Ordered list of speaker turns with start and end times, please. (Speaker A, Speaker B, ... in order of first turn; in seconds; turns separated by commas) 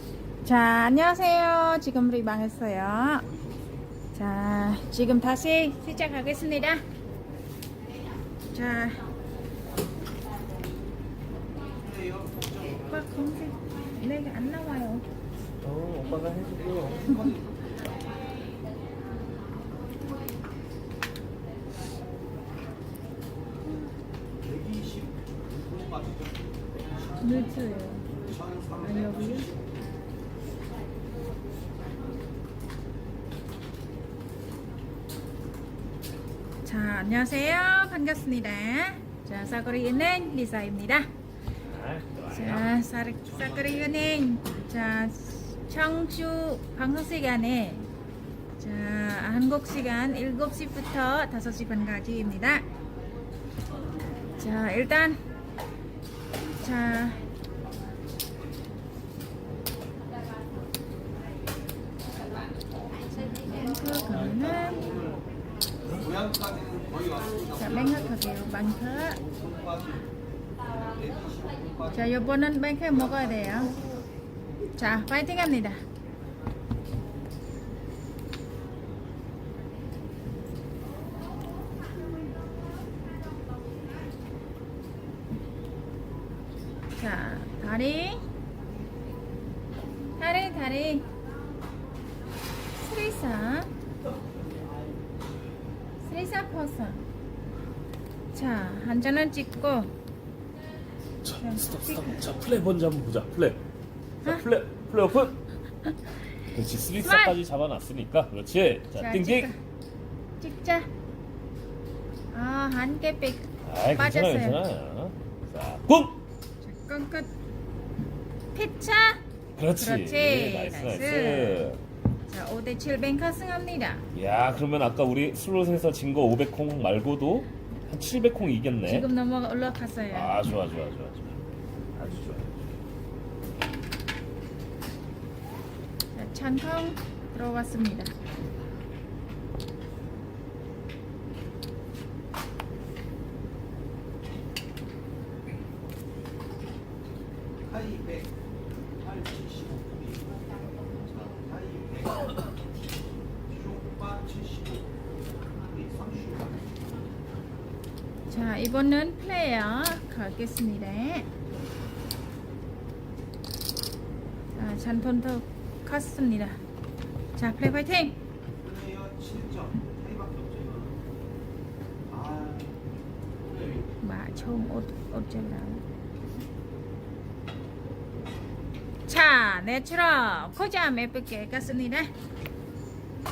Speaker A: 0.4-3.2, Speaker A: 4.1-6.8, Speaker A: 8.5-9.0, Speaker B: 11.8-13.0, Speaker A: 12.7-15.0, Speaker C: 15.6-17.2, Speaker B: 16.9-17.4, Speaker B: 24.4-26.4, Speaker B: 26.9-27.5, Speaker A: 27.2-28.0, Speaker B: 28.1-29.9, Speaker A: 28.8-29.5, Speaker A: 36.6-41.1, Speaker C: 41.6-42.7, Speaker A: 42.3-47.9, Speaker B: 43.2-44.0, Speaker A: 48.6-52.6, Speaker A: 54.4-55.2, Speaker A: 56.6-57.2, Speaker A: 63.1-64.8, Speaker B: 64.1-65.2, Speaker B: 66.0-68.3, Speaker A: 67.6-69.2, Speaker B: 69.2-70.0, Speaker B: 70.6-72.3, Speaker A: 71.9-73.7, Speaker B: 72.9-73.9, Speaker A: 74.8-75.8, Speaker A: 87.0-88.2, Speaker A: 90.2-91.0, Speaker A: 92.8-93.7, Speaker A: 96.0-97.0, Speaker A: 98.3-99.9, Speaker C: 101.2-103.6, Speaker A: 101.4-102.2, Speaker C: 104.2-105.4, Speaker C: 106.5-109.5, Speaker A: 106.9-107.3, Speaker A: 109.0-109.6, Speaker A: 110.4-110.9, Speaker A: 112.3-114.6, Speaker C: 113.6-116.2, Speaker A: 116.6-117.3, Speaker A: 118.5-119.2, Speaker C: 119.5-121.8, Speaker A: 119.8-121.7, Speaker A: 122.3-124.0, Speaker C: 124.1-129.1, Speaker A: 128.8-130.4, Speaker C: 130.1-131.4, Speaker C: 131.9-132.6, Speaker A: 136.1-138.1, Speaker B: 147.7-148.3, Speaker B: 149.0-152.4, Speaker B: 153.5-154.9, Speaker B: 155.7-156.6, Speaker A: 158.3-161.3, Speaker A: 164.6-166.6, Speaker A: 167.4-168.2, Speaker B: 168.6-171.0, Speaker B: 172.1-172.7, Speaker B: 173.4-173.9, Speaker A: 174.0-175.8, Speaker A: 179.1-182.1